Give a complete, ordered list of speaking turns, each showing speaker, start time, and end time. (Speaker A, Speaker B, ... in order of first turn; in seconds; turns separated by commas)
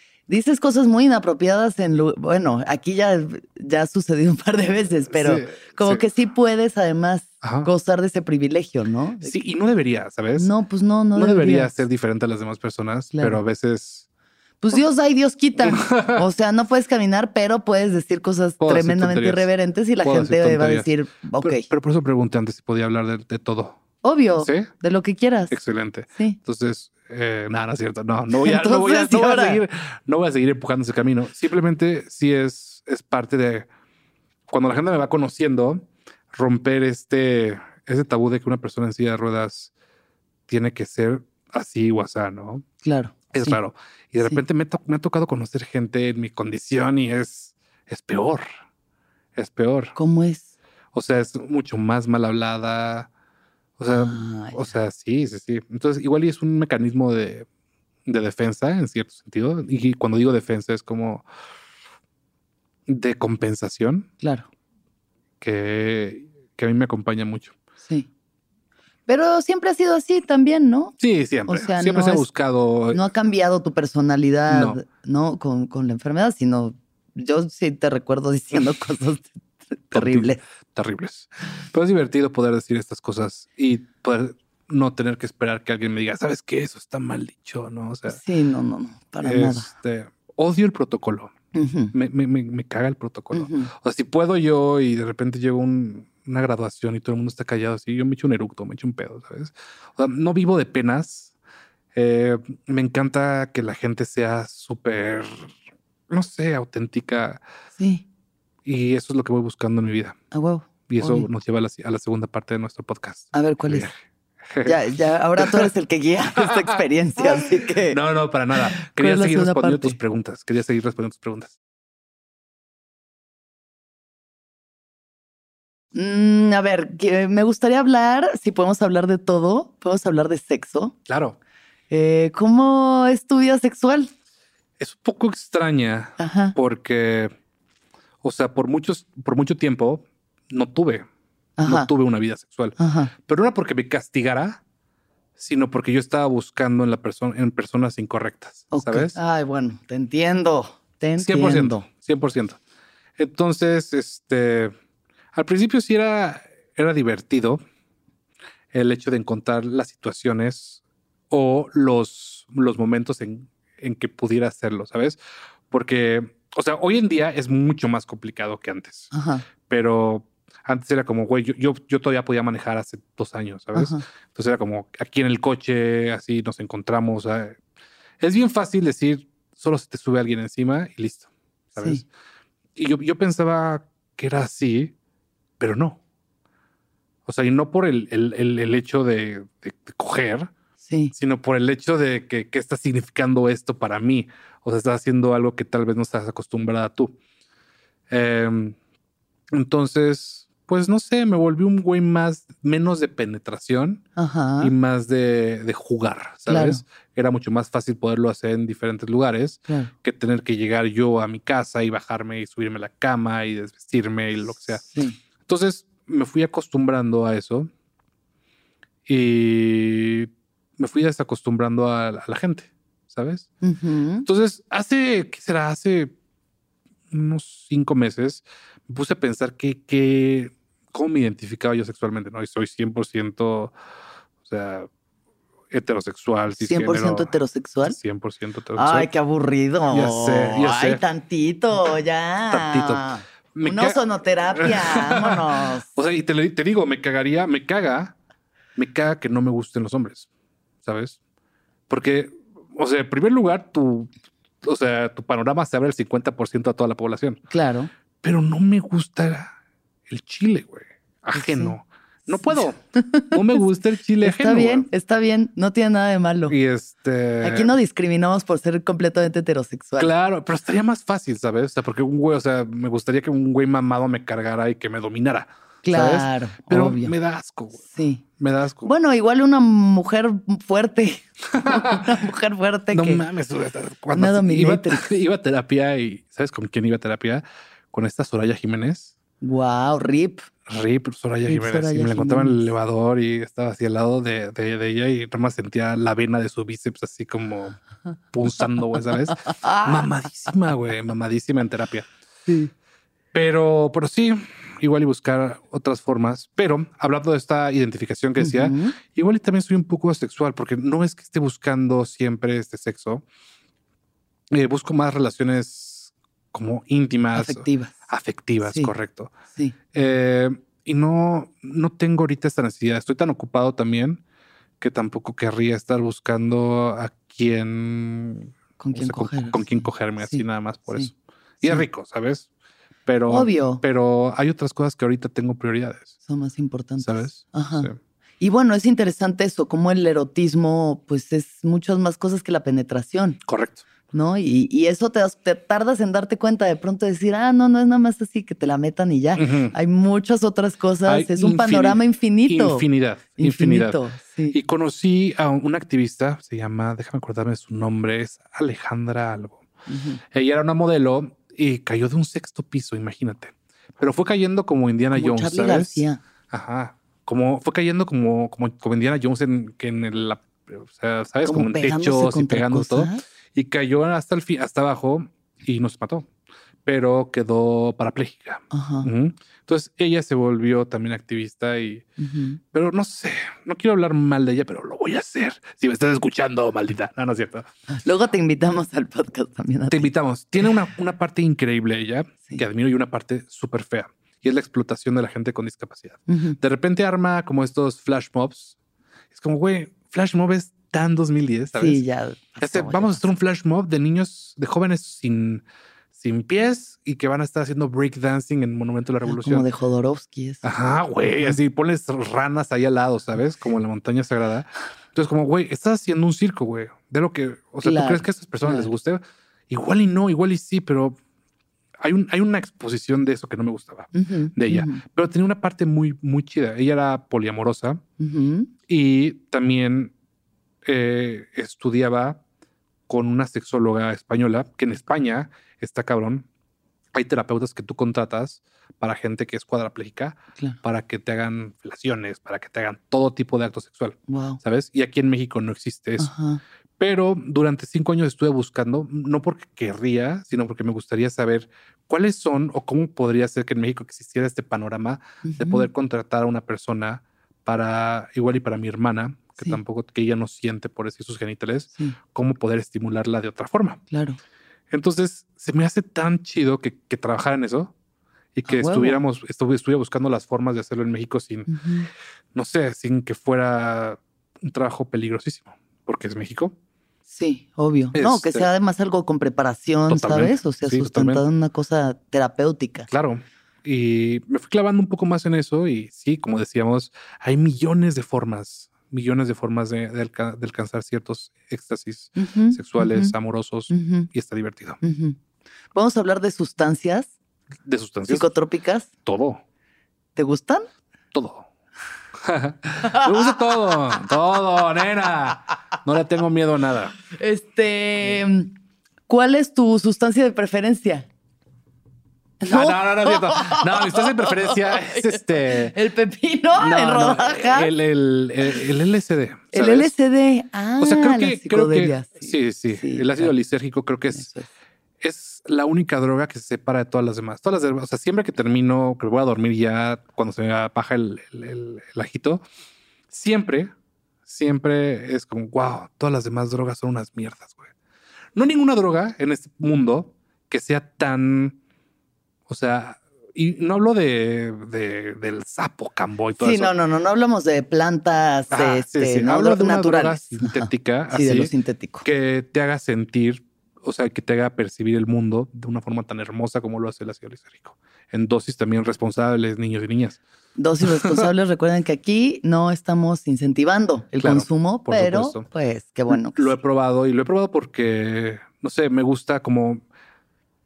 Speaker A: 0.3-9.4, Speaker B: 5.1-6.1, Speaker B: 7.4-7.7, Speaker B: 9.2-10.5, Speaker A: 10.4-11.7, Speaker B: 11.1-14.1, Speaker A: 13.1-13.4, Speaker A: 14.6-21.7, Speaker B: 15.6-16.2, Speaker B: 18.6-19.5, Speaker B: 20.0-23.8, Speaker A: 24.0-25.6, Speaker B: 24.4-24.7, Speaker B: 25.5-33.7, Speaker A: 28.3-29.6, Speaker B: 34.5-39.7, Speaker B: 40.5-42.6, Speaker A: 42.8-43.6, Speaker B: 43.3-48.4, Speaker B: 49.4-50.0, Speaker A: 50.0-50.5, Speaker B: 50.9-53.1, Speaker B: 53.8-57.5, Speaker A: 53.9-54.7, Speaker B: 58.0-61.3, Speaker B: 62.9-64.1, Speaker A: 64.2-64.5, Speaker B: 65.4-67.5, Speaker A: 69.1-70.9, Speaker B: 71.0-73.0, Speaker A: 71.5-72.3, Speaker A: 72.9-80.4, Speaker B: 74.5-74.8, Speaker B: 79.9-88.2, Speaker A: 88.1-89.7, Speaker B: 89.2-91.3, Speaker A: 91.5-91.9, Speaker B: 91.9-101.3, Speaker A: 93.3-93.7, Speaker B: 101.9-105.5, Speaker B: 106.1-107.4, Speaker A: 107.8-108.0, Speaker B: 108.6-110.2, Speaker A: 110.3-111.3, Speaker B: 110.9-114.8, Speaker A: 113.3-113.9, Speaker A: 114.6-118.0, Speaker B: 115.4-115.7, Speaker B: 116.4-121.6, Speaker A: 118.6-120.0, Speaker A: 125.9-130.9, Speaker B: 131.1-131.4, Speaker A: 131.9-134.1, Speaker B: 134.8-137.3, Speaker A: 136.2-136.6, Speaker B: 138.2-141.1, Speaker A: 141.6-141.9, Speaker B: 141.6-144.6, Speaker A: 142.8-143.1, Speaker B: 145.4-149.2, Speaker A: 148.7-151.9, Speaker B: 151.2-152.6, Speaker B: 153.2-154.7, Speaker B: 155.3-157.6, Speaker B: 158.7-165.2, Speaker B: 165.7-169.1, Speaker A: 169.1-169.4, Speaker B: 169.7-177.6, Speaker A: 173.8-174.0, Speaker B: 178.2-182.1, Speaker B: 182.8-184.9, Speaker B: 185.6-186.0, Speaker B: 187.3-190.5, Speaker A: 190.8-191.1, Speaker B: 191.1-197.2, Speaker B: 198.1-198.8, Speaker B: 199.5-204.0, Speaker A: 204.2-204.7, Speaker B: 204.6-214.8, Speaker A: 206.5-206.8, Speaker A: 214.8-215.2, Speaker B: 215.4-217.7, Speaker B: 219.1-223.5, Speaker A: 223.6-224.3, Speaker B: 224.2-226.1, Speaker B: 227.1-233.8, Speaker B: 234.4-234.9, Speaker B: 235.7-239.1, Speaker A: 236.6-238.0, Speaker A: 238.8-245.9, Speaker B: 239.9-241.0, Speaker B: 242.5-244.0, Speaker B: 244.5-248.1, Speaker B: 248.8-250.3, Speaker B: 250.8-251.2, Speaker B: 251.9-257.4, Speaker A: 257.5-257.9, Speaker B: 258.2-259.6, Speaker B: 260.1-264.9, Speaker A: 261.4-261.8, Speaker A: 262.3-263.6, Speaker A: 264.2-266.6, Speaker B: 266.5-267.7, Speaker A: 267.4-270.1, Speaker B: 270.0-277.9, Speaker A: 275.8-277.1, Speaker A: 277.9-278.2, Speaker B: 278.4-278.9, Speaker A: 278.8-283.2, Speaker B: 281.5-282.1, Speaker B: 282.9-289.1, Speaker A: 284.1-285.2, Speaker A: 289.4-290.5, Speaker B: 290.7-297.8, Speaker A: 291.5-292.6, Speaker B: 298.3-302.1, Speaker B: 303.3-313.2, Speaker A: 308.4-308.9, Speaker B: 314.5-319.4, Speaker A: 317.4-317.9, Speaker A: 318.6-318.9, Speaker B: 319.9-324.2, Speaker B: 324.8-332.5, Speaker A: 328.8-331.1, Speaker B: 333.1-336.1, Speaker A: 333.3-333.8, Speaker A: 336.2-343.4, Speaker B: 337.0-338.0, Speaker B: 343.5-343.8, Speaker A: 344.1-352.9, Speaker B: 349.4-349.8, Speaker B: 351.1-354.0, Speaker A: 353.4-354.6, Speaker B: 354.5-359.6, Speaker A: 359.9-360.2, Speaker B: 360.3-376.3, Speaker A: 365.1-366.2, Speaker A: 371.4-373.2, Speaker B: 376.9-382.1, Speaker A: 378.7-379.1, Speaker A: 382.2-382.6, Speaker B: 382.7-387.7, Speaker A: 388.0-390.1, Speaker B: 389.9-398.8, Speaker A: 396.3-396.6, Speaker B: 399.3-402.0, Speaker A: 401.8-403.3, Speaker B: 402.6-405.6, Speaker B: 406.1-409.6, Speaker A: 409.2-410.6, Speaker B: 410.6-421.2, Speaker A: 417.8-418.9, Speaker B: 422.0-428.0, Speaker A: 424.1-425.0, Speaker A: 428.2-428.7, Speaker B: 428.9-430.1, Speaker B: 430.9-432.4, Speaker B: 433.1-436.5, Speaker B: 437.1-446.3, Speaker A: 444.3-444.6, Speaker A: 446.2-446.6, Speaker B: 447.0-464.0, Speaker A: 455.4-455.9, Speaker A: 464.1-464.4, Speaker B: 464.9-467.9, Speaker B: 468.5-471.7, Speaker A: 468.7-469.2, Speaker A: 471.7-472.1, Speaker B: 472.5-476.7, Speaker A: 477.3-483.1, Speaker B: 478.1-478.7, Speaker B: 480.1-481.4, Speaker B: 483.1-495.0, Speaker A: 492.4-493.3, Speaker A: 493.9-494.3, Speaker A: 495.0-495.4, Speaker A: 495.9-497.3, Speaker B: 497.8-498.5, Speaker A: 498.3-499.1, Speaker B: 499.2-499.6, Speaker A: 500.4-500.9, Speaker B: 501.3-501.7, Speaker B: 502.4-507.1, Speaker A: 503.0-503.7, Speaker A: 507.4-508.7, Speaker A: 509.3-511.2, Speaker A: 512.6-517.9, Speaker B: 512.7-515.9, Speaker B: 516.8-520.1, Speaker A: 519.7-523.5, Speaker B: 521.0-524.5, Speaker A: 524.3-524.7, Speaker B: 525.2-532.6, Speaker B: 533.3-533.9, Speaker B: 534.5-537.9, Speaker B: 538.5-541.8, Speaker B: 542.7-546.9, Speaker A: 546.6-552.2, Speaker B: 548.7-560.4, Speaker A: 560.8-566.8, Speaker B: 561.0-561.5, Speaker B: 564.4-565.7, Speaker B: 566.3-570.0